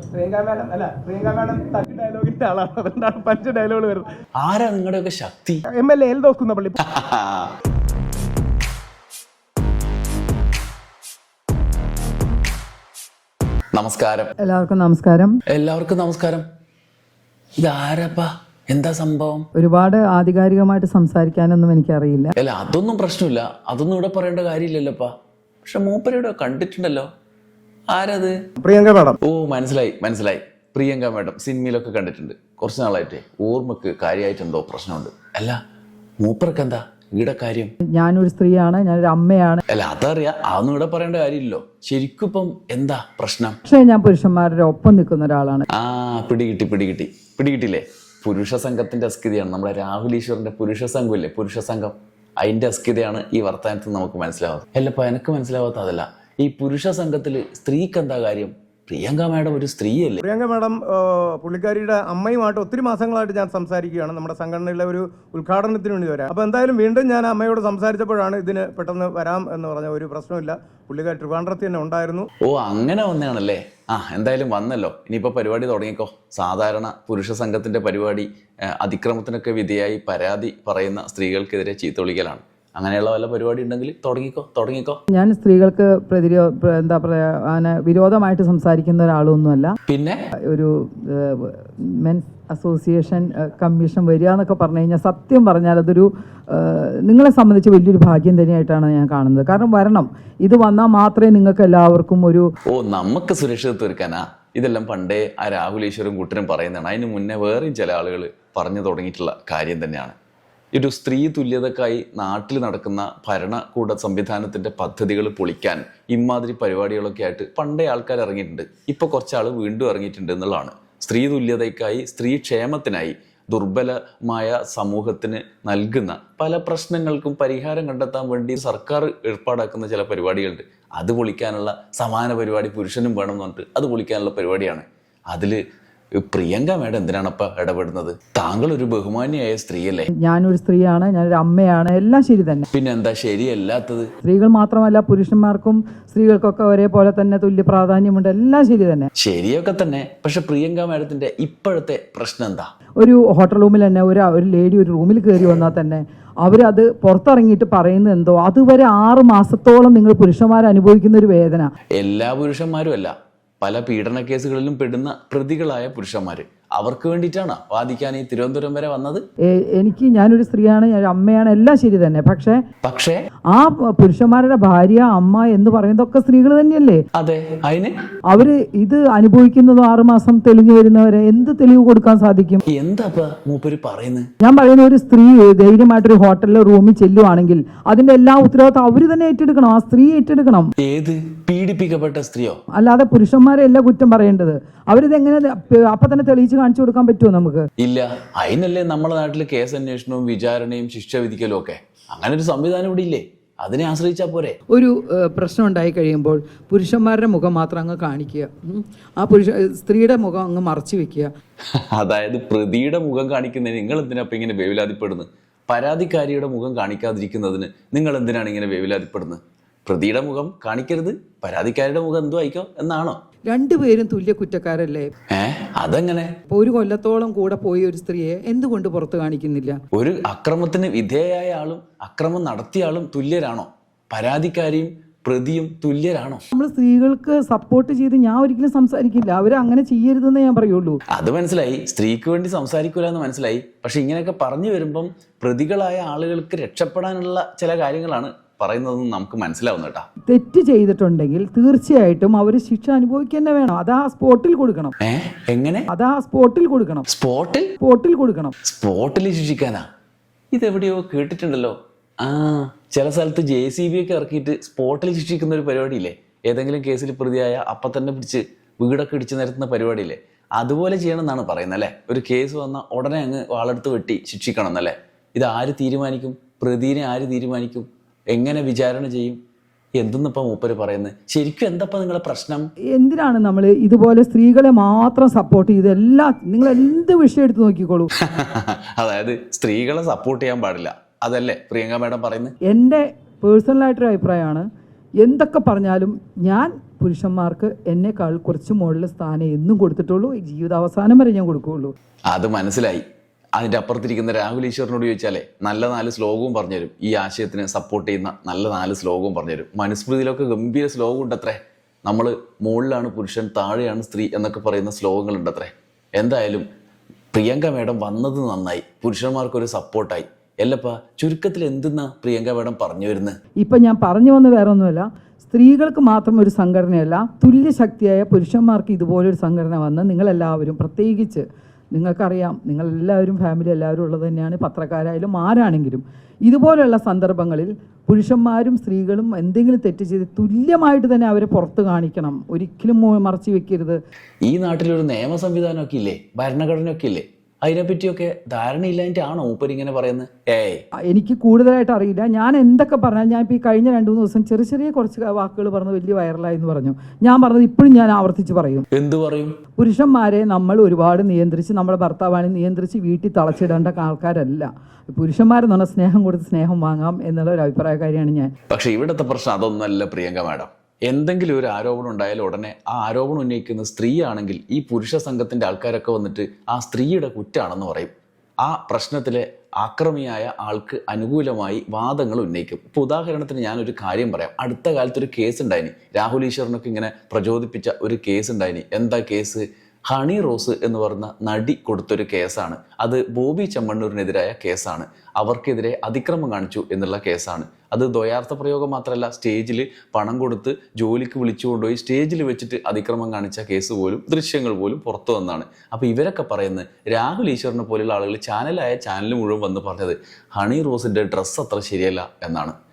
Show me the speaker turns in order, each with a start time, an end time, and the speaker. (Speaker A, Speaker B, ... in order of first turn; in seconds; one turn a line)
Speaker A: 0.1-4.1
Speaker B: 4.4-5.6
Speaker A: 5.7-6.8
Speaker B: 6.8-7.5
Speaker B: 13.7-14.3
Speaker C: 14.4-15.4
Speaker B: 15.5-16.4
Speaker B: 17.6-19.5
Speaker C: 19.6-22.3
Speaker B: 22.4-25.1
Speaker B: 25.6-27.1
Speaker B: 27.9-28.3
Speaker A: 28.6-29.2
Speaker B: 29.2-35.6
Speaker B: 36.2-37.7
Speaker C: 37.8-39.6
Speaker B: 39.7-43.6
Speaker C: 43.6-45.7
Speaker B: 45.7-60.2
Speaker A: 60.2-72.3
Speaker B: 72.4-85.0
Speaker C: 85.1-89.8
Speaker B: 89.9-90.2
Speaker C: 90.5-102.5
Speaker B: 102.7-110.1
Speaker B: 110.7-135.6
Speaker B: 136.2-140.1
Speaker C: 140.1-142.7
Speaker B: 142.7-144.1
Speaker C: 144.2-149.1
Speaker B: 149.2-152.7
Speaker C: 153.0-161.7
Speaker B: 161.9-169.2
Speaker C: 169.5-172.6
Speaker B: 172.8-173.2
Speaker C: 173.5-177.0
Speaker B: 177.1-177.9
Speaker C: 178.3-182.6
Speaker B: 182.7-184.3
Speaker C: 184.4-190.7
Speaker B: 190.8-192.6
Speaker C: 192.7-197.7
Speaker B: 197.8-204.6
Speaker C: 204.7-211.3
Speaker B: 211.7-223.2
Speaker C: 223.5-225.1
Speaker B: 225.3-226.3
Speaker C: 226.5-229.8
Speaker B: 229.9-236.4
Speaker C: 236.5-241.0
Speaker B: 241.1-250.1
Speaker C: 250.2-254.9
Speaker B: 255.0-255.9
Speaker C: 255.9-257.1
Speaker B: 257.1-257.7
Speaker C: 257.8-258.5
Speaker B: 258.6-259.9
Speaker B: 260.5-279.4
Speaker B: 280.0-282.7
Speaker C: 282.9-288.1
Speaker B: 288.2-292.5
Speaker C: 292.6-294.7
Speaker C: 295.2-301.9
Speaker B: 302.3-303.0
Speaker B: 303.6-316.6
Speaker B: 317.3-323.4
Speaker C: 323.6-344.0
Speaker B: 344.4-350.8
Speaker C: 351.1-358.9
Speaker B: 358.9-359.6
Speaker C: 359.8-368.5
Speaker B: 368.7-378.1
Speaker B: 378.6-412.8